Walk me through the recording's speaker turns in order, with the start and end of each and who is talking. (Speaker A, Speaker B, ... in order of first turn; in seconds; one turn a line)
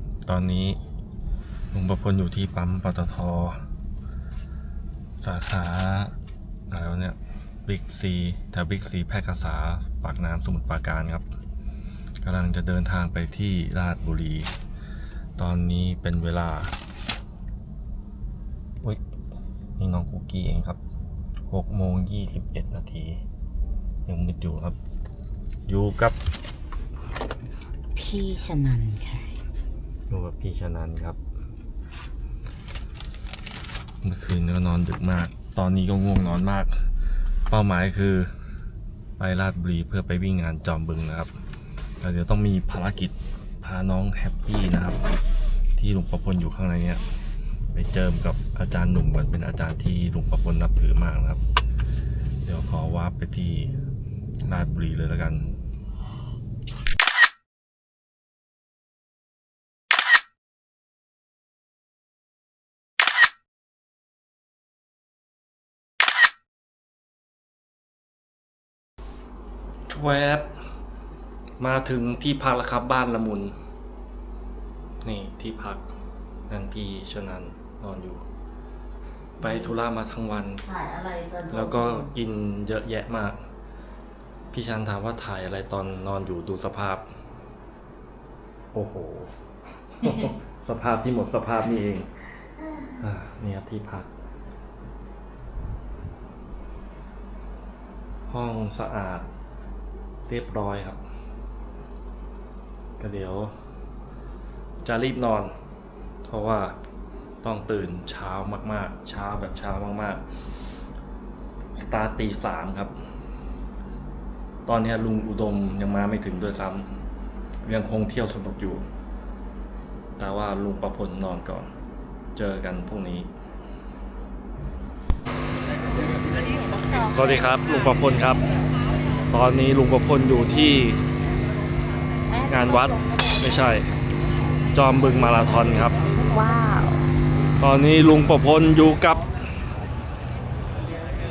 Speaker A: 0.2-0.8
Speaker A: 1.7-3.6
Speaker A: 5.2-6.2
Speaker A: 6.7-11.2
Speaker A: 12.2-14.5
Speaker A: 15.4-16.7
Speaker A: 19.8-20.8
Speaker A: 21.5-23.2
Speaker A: 24.1-24.8
Speaker A: 25.7-26.2
Speaker B: 28.0-29.3
Speaker A: 30.1-31.2
Speaker A: 34.0-36.7
Speaker A: 37.5-38.3
Speaker A: 39.2-41.3
Speaker A: 42.0-45.0
Speaker A: 45.8-47.0
Speaker A: 47.7-51.4
Speaker A: 52.5-53.8
Speaker A: 54.4-55.5
Speaker A: 69.9-70.5
Speaker A: 71.6-73.5
Speaker A: 75.0-75.8
Speaker A: 76.5-78.2
Speaker A: 79.4-80.7
Speaker B: 79.4-79.7
Speaker B: 80.7-82.1
Speaker A: 81.5-83.4
Speaker A: 84.5-87.1
Speaker A: 88.7-89.3
Speaker A: 90.0-92.1
Speaker A: 93.0-94.1
Speaker A: 98.3-99.3
Speaker A: 100.3-101.0
Speaker A: 103.0-103.5
Speaker A: 104.8-105.5
Speaker A: 106.3-106.8
Speaker A: 107.4-110.2
Speaker A: 111.8-112.9
Speaker A: 114.7-116.9
Speaker A: 117.6-118.8
Speaker A: 120.2-121.7
Speaker A: 122.3-123.3
Speaker A: 127.0-128.4
Speaker A: 129.3-131.0
Speaker A: 132.5-133.9
Speaker A: 134.7-136.0
Speaker B: 136.2-137.0
Speaker A: 137.6-139.2